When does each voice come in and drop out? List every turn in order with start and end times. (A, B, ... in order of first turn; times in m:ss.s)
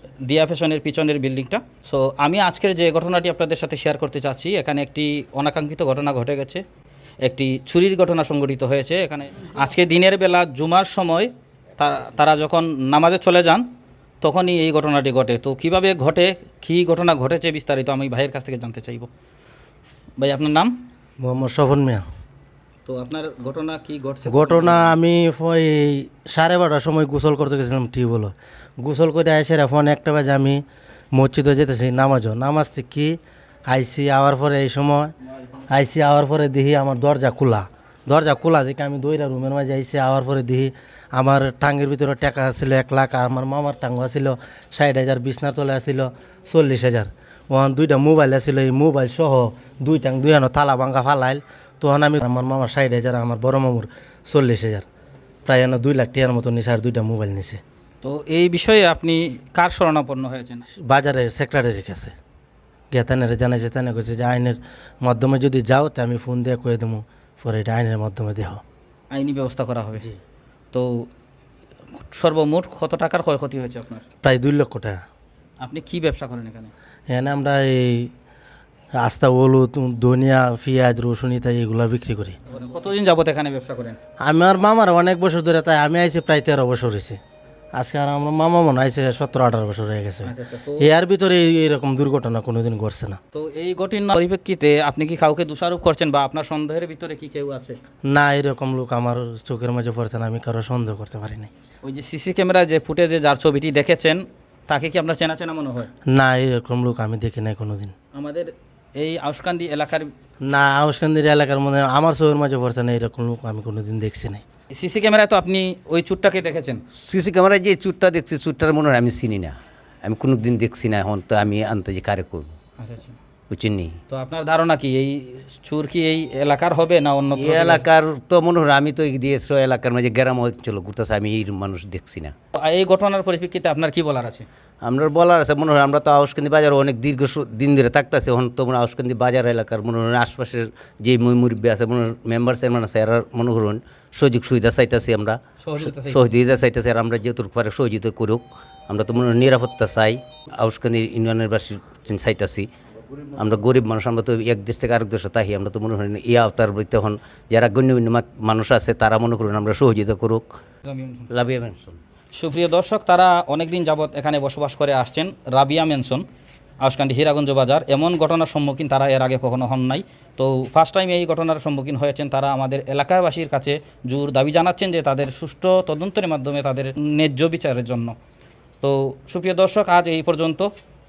0:00.2-0:06.6 A
0:07.2-0:13.6 A
0:14.2-0:19.1 A
0:20.2-0:20.7 A
0:21.2-0:22.1 B
0:22.9-0:25.0 A
0:24.3-0:30.6 B
0:31.1-0:35.1 B
0:35.7-0:54.8 B
0:55.5-0:57.6 B
0:58.0-1:00.6 A
1:00.8-1:02.1 B
1:02.9-1:08.6 B
1:09.1-1:10.1 A
1:10.7-1:11.1 A
1:12.1-1:14.1 A
1:14.2-1:15.0 B
1:15.6-1:16.7 A
1:17.1-1:18.1 B
1:19.0-1:22.4 B
1:22.5-1:24.0 A
1:24.2-1:27.2 B
1:27.8-1:33.2 B
1:30.3-1:30.9 A
1:33.3-1:37.8 A
1:38.1-1:41.5 B
1:41.8-1:45.9 A
1:46.1-1:47.9 B
1:48.1-1:50.1 A
1:50.4-1:54.4 B
1:54.7-1:56.8 A
1:56.9-2:02.5 C
2:02.8-2:03.2 A
2:03.5-2:04.0 C
2:04.1-2:07.8 A
2:07.4-2:12.3 C
2:12.6-2:14.5 A
2:14.8-2:32.7 C
2:25.6-2:26.3 A
2:33.3-2:40.5 C
2:40.8-2:41.3 A
2:41.3-2:42.0 C
2:42.3-2:46.2 A
2:46.8-2:58.2 A
2:58.8-3:00.7 A